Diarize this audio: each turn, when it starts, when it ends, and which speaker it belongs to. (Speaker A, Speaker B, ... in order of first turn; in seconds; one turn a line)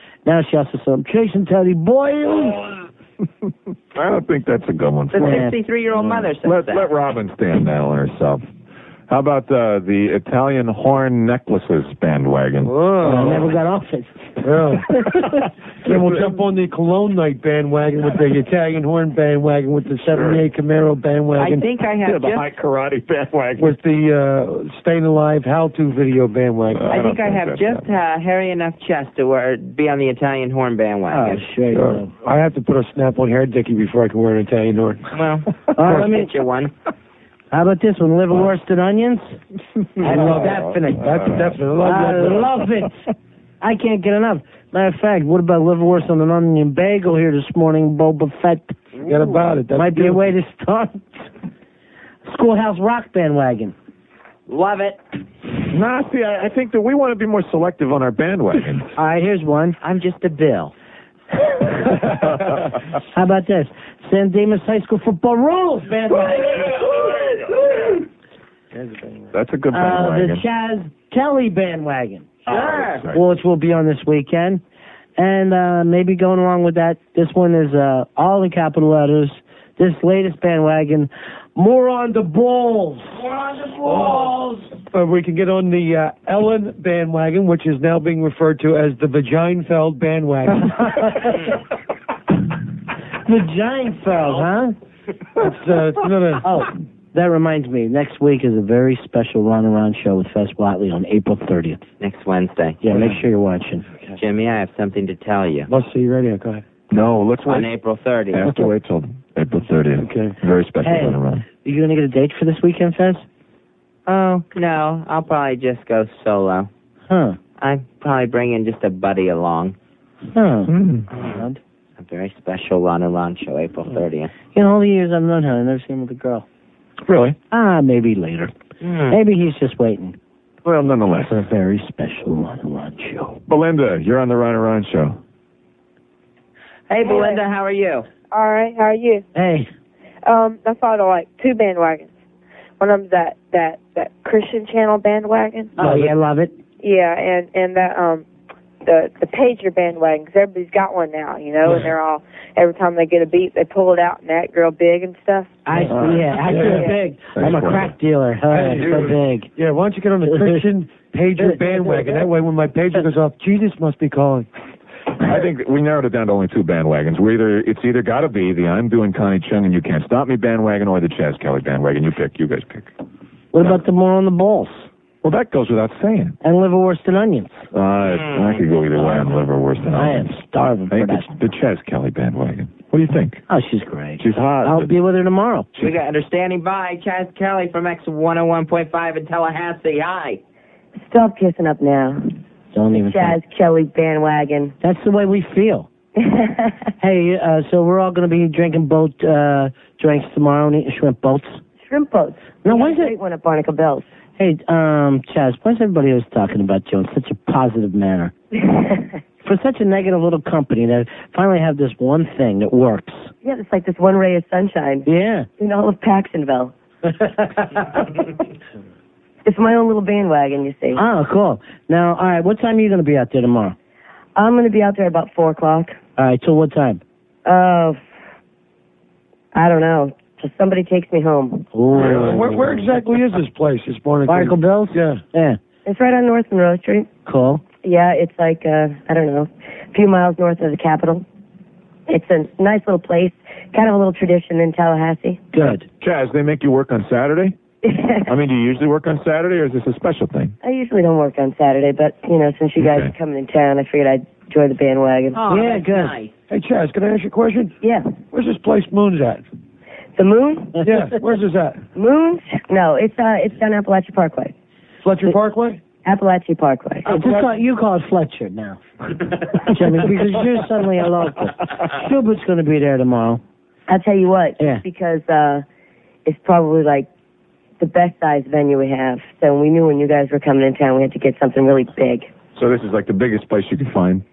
Speaker A: 0.2-2.7
Speaker B: 3.9-5.5
Speaker C: 5.1-6.9
Speaker A: 5.2-5.5
Speaker B: 6.1-8.4
Speaker B: 9.1-13.4
Speaker D: 12.6-13.5
Speaker A: 13.0-15.2
Speaker D: 14.4-15.0
Speaker D: 15.8-21.6
Speaker B: 15.8-16.2
Speaker B: 20.1-20.4
Speaker C: 21.4-22.5
Speaker B: 22.0-23.7
Speaker D: 23.6-26.9
Speaker B: 26.7-27.9
Speaker C: 26.9-31.4
Speaker A: 31.1-32.1
Speaker D: 31.7-35.1
Speaker C: 35.1-36.7
Speaker A: 35.7-36.3
Speaker A: 37.5-39.4
Speaker A: 40.0-41.1
Speaker D: 40.0-42.6
Speaker B: 40.1-41.6
Speaker A: 41.8-43.0
Speaker A: 43.6-48.8
Speaker D: 49.0-50.3
Speaker A: 49.7-51.3
Speaker A: 52.2-53.7
Speaker C: 54.5-55.0
Speaker B: 55.7-58.9
Speaker A: 59.0-59.8
Speaker C: 59.8-60.7
Speaker A: 63.1-66.8
Speaker D: 68.7-69.2
Speaker B: 69.3-70.4
Speaker A: 69.7-72.5
Speaker B: 72.5-73.2
Speaker C: 72.5-73.0
Speaker A: 73.1-74.6
Speaker A: 75.2-83.2
Speaker C: 83.2-84.3
Speaker D: 83.8-91.1
Speaker A: 90.8-91.3
Speaker A: 93.2-94.8
Speaker D: 95.4-96.5
Speaker A: 96.4-101.8
Speaker C: 102.0-102.8
Speaker A: 102.8-103.8
Speaker C: 104.2-105.7
Speaker D: 105.7-106.6
Speaker B: 106.9-107.7
Speaker C: 107.5-108.5
Speaker B: 108.3-111.4
Speaker D: 110.0-110.4
Speaker A: 110.8-113.2
Speaker C: 114.1-116.7
Speaker A: 117.1-117.4
Speaker C: 117.6-119.8
Speaker A: 120.3-121.6
Speaker B: 120.7-121.1
Speaker C: 121.1-121.4
Speaker C: 122.0-124.3
Speaker A: 124.5-126.4
Speaker B: 127.0-127.4
Speaker A: 127.5-128.5
Speaker C: 128.8-129.2
Speaker A: 129.1-130.2
Speaker B: 130.6-131.5
Speaker A: 131.2-133.4
Speaker B: 133.5-135.2
Speaker C: 136.9-138.1
Speaker E: 137.0-137.4
Speaker E: 138.3-139.2
Speaker A: 139.3-139.7
Speaker E: 140.2-142.1
Speaker E: 142.8-145.7
Speaker A: 145.8-146.6
Speaker D: 145.8-146.1
Speaker E: 146.8-148.2
Speaker E: 148.8-155.6
Speaker A: 155.7-159.5
Speaker B: 155.9-156.5
Speaker D: 156.0-156.9
Speaker B: 157.3-157.9
Speaker D: 158.5-164.5
Speaker B: 158.8-159.1
Speaker A: 160.2-160.7
Speaker A: 161.4-162.2
Speaker B: 165.2-172.9
Speaker A: 173.5-174.9
Speaker B: 175.2-176.3
Speaker A: 176.4-177.6
Speaker B: 177.7-180.4
Speaker C: 178.1-178.6
Speaker A: 179.9-181.3
Speaker B: 180.9-183.4
Speaker A: 183.5-185.7
Speaker B: 184.2-184.9
Speaker C: 185.8-190.4
Speaker F: 191.0-192.2
Speaker A: 192.7-193.4
Speaker F: 192.9-194.7
Speaker A: 194.8-195.9
Speaker F: 196.2-196.8
Speaker A: 197.0-201.6
Speaker F: 201.8-204.1
Speaker A: 202.6-203.1
Speaker A: 204.4-208.3
Speaker F: 208.6-209.1
Speaker A: 209.4-213.3
Speaker F: 213.4-215.1
Speaker A: 215.1-215.5
Speaker F: 215.6-216.7
Speaker A: 217.1-217.8
Speaker F: 219.4-221.0
Speaker A: 220.9-223.8
Speaker F: 224.3-226.0
Speaker A: 226.2-227.0
Speaker F: 227.4-228.0
Speaker F: 229.5-231.7
Speaker A: 231.7-232.8
Speaker B: 231.9-232.4
Speaker D: 232.0-235.2
Speaker A: 234.3-235.6
Speaker F: 235.8-237.1
Speaker A: 237.2-237.6
Speaker F: 237.8-241.2
Speaker F: 242.1-245.4
Speaker A: 245.5-245.8
Speaker B: 245.6-247.6
Speaker F: 247.8-248.3
Speaker B: 248.2-250.5
Speaker F: 250.6-255.4
Speaker B: 252.8-253.1
Speaker C: 255.3-256.3
Speaker A: 255.5-256.2
Speaker D: 256.5-257.8
Speaker F: 257.8-258.2
Speaker D: 258.3-259.4
Speaker F: 260.1-260.8
Speaker D: 260.8-261.8
Speaker F: 261.9-264.5
Speaker D: 265.0-265.8
Speaker F: 266.0-267.1
Speaker A: 267.0-268.8
Speaker D: 267.1-267.5
Speaker A: 269.6-273.4
Speaker F: 273.9-275.6
Speaker A: 274.6-274.8
Speaker F: 276.2-277.1
Speaker F: 277.8-282.3
Speaker B: 282.5-284.2